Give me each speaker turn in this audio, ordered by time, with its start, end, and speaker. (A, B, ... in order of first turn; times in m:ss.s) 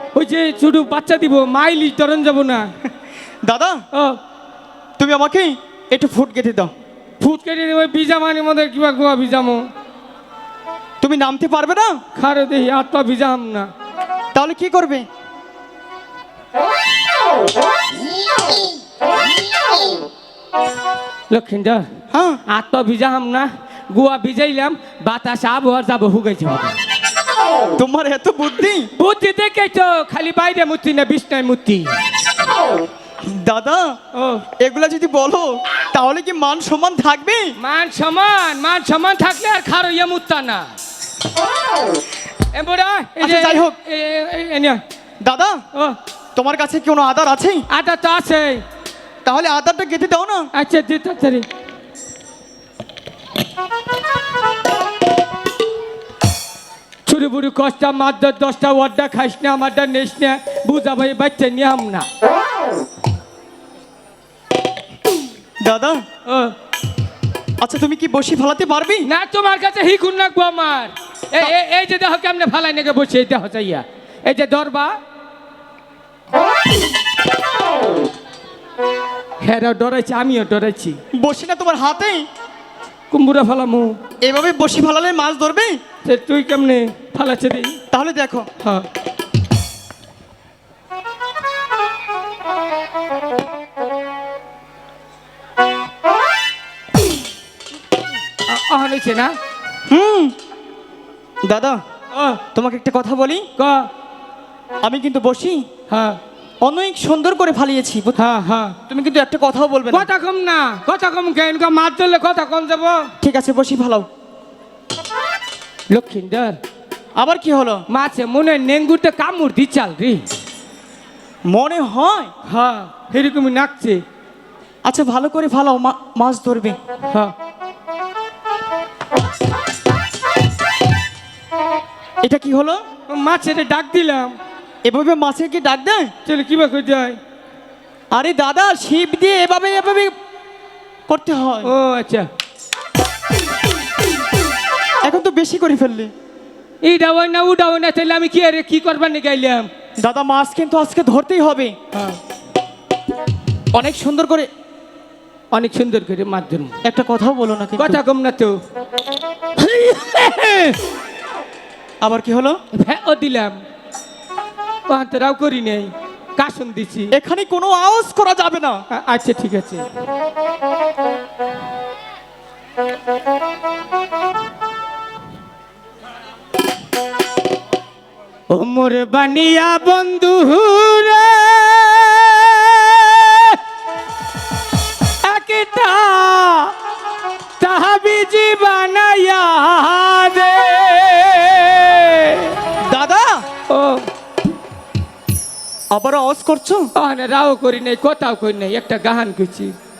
0:00.1-0:02.7 A
0:03.4-0:03.8 B
0:03.9-0:04.2 A
0:05.0-0:06.7 B
0:07.2-0:09.7 A
0:11.0-0:12.0 B
0:12.2-0:13.7 A
0:14.3-0:15.0 B
0:21.3-0:21.9 A
0:22.1-0:22.4 B
0:22.5-0:26.7 A
0:27.8-0:28.9 B
0:29.0-0:31.9 A
0:33.2-0:34.0 B
0:34.1-0:34.4 A
0:34.6-0:37.5 B
0:37.6-0:40.7 A
0:42.5-0:44.8 A
0:43.2-0:43.7 B
0:45.2-0:45.6 B
0:46.3-0:47.6 B
0:47.7-0:48.6 A
0:49.2-0:50.5 B
0:50.5-0:51.4 A
0:57.1-1:02.0 A
1:05.6-1:06.0 B
1:06.2-1:06.5 A
1:07.6-1:09.1 B
1:09.0-1:15.0 A
1:19.4-1:21.0 A
1:21.1-1:22.2 B
1:23.1-1:24.0 A
1:24.2-1:25.8 B
1:26.0-1:27.8 A
1:27.9-1:28.5 B
1:38.5-1:39.4 A
1:39.9-1:40.3 B
1:41.4-1:41.8 B
1:42.1-1:42.4 A
1:42.5-1:43.5 B
1:43.6-1:43.9 A
1:44.8-1:45.6 B
1:45.9-1:46.2 A
1:46.6-1:48.2 B
1:48.2-1:48.8 A
1:48.9-1:50.1 B
1:49.9-1:53.1 A
1:53.2-1:54.1 B
1:55.9-1:56.6 A
1:57.2-1:57.8 B
1:57.9-2:00.2 A
2:01.5-2:02.3 B
2:02.4-2:04.0 A
2:04.8-2:06.8 B
2:12.2-2:12.8 B
2:13.1-2:14.4 A
2:14.8-2:16.1 B
2:16.2-2:17.2 A
2:18.1-2:20.1 B
2:21.1-2:21.7 B
2:21.6-2:22.3 A
2:25.0-2:26.1 B
2:26.8-2:29.7 A
2:30.0-2:31.8 B
2:33.7-2:34.5 B
2:35.5-2:36.7 A
2:36.8-2:38.0 B
2:37.8-2:38.6 A
2:39.6-2:40.8 A
2:42.0-2:42.6 B
2:42.7-2:43.6 A
2:44.9-2:47.1 A
2:47.1-2:48.8 B
2:48.9-2:49.8 A
2:58.5-3:03.6 A
3:05.2-3:06.7 A
3:07.6-3:12.6 A
3:12.8-3:13.4 B
3:13.7-3:14.0 A
3:15.9-3:16.9 B
3:17.0-3:19.7 A